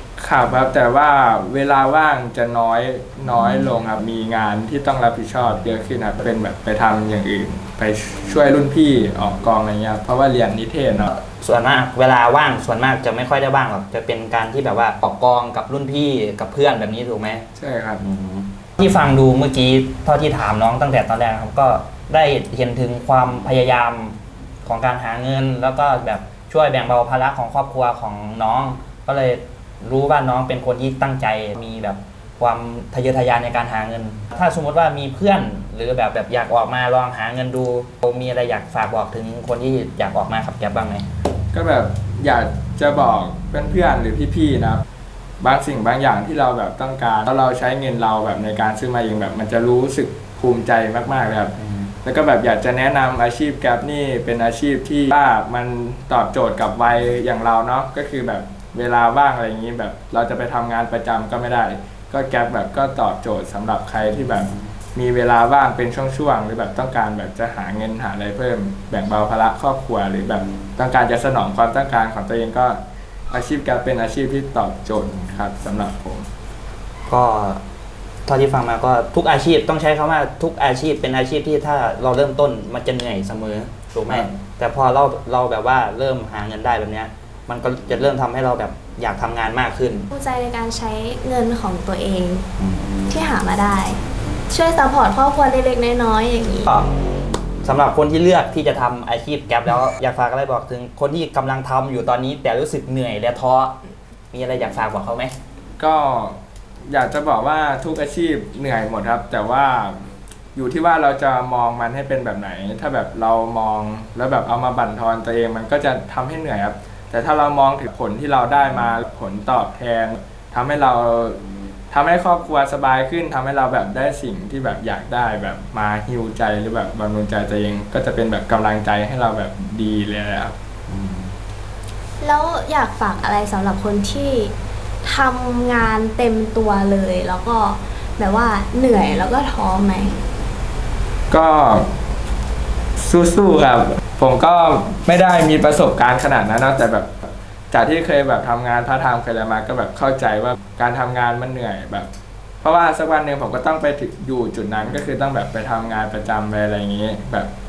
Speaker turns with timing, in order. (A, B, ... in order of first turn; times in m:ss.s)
0:00.2-0:11.1 A
0:11.1-0:17.5 B
0:17.6-0:18.0 A
0:18.0-0:41.1 B
0:41.5-0:44.8 A
0:45.4-1:12.8 A
0:51.6-0:51.9 B
1:13.3-1:16.3 A
1:17.1-1:17.6 B
1:18.3-1:30.1 B
1:24.1-1:24.4 A
1:30.1-1:32.5 C
1:32.6-1:32.9 B
1:33.1-1:36.7 C
1:37.6-1:43.8 B
1:44.3-1:45.4 B
1:45.8-1:50.0 A
1:50.6-2:10.6 A
2:10.9-2:11.3 B
2:12.2-2:20.2 C
2:21.3-2:21.9 A
2:23.0-2:32.1 A
2:32.6-2:37.5 A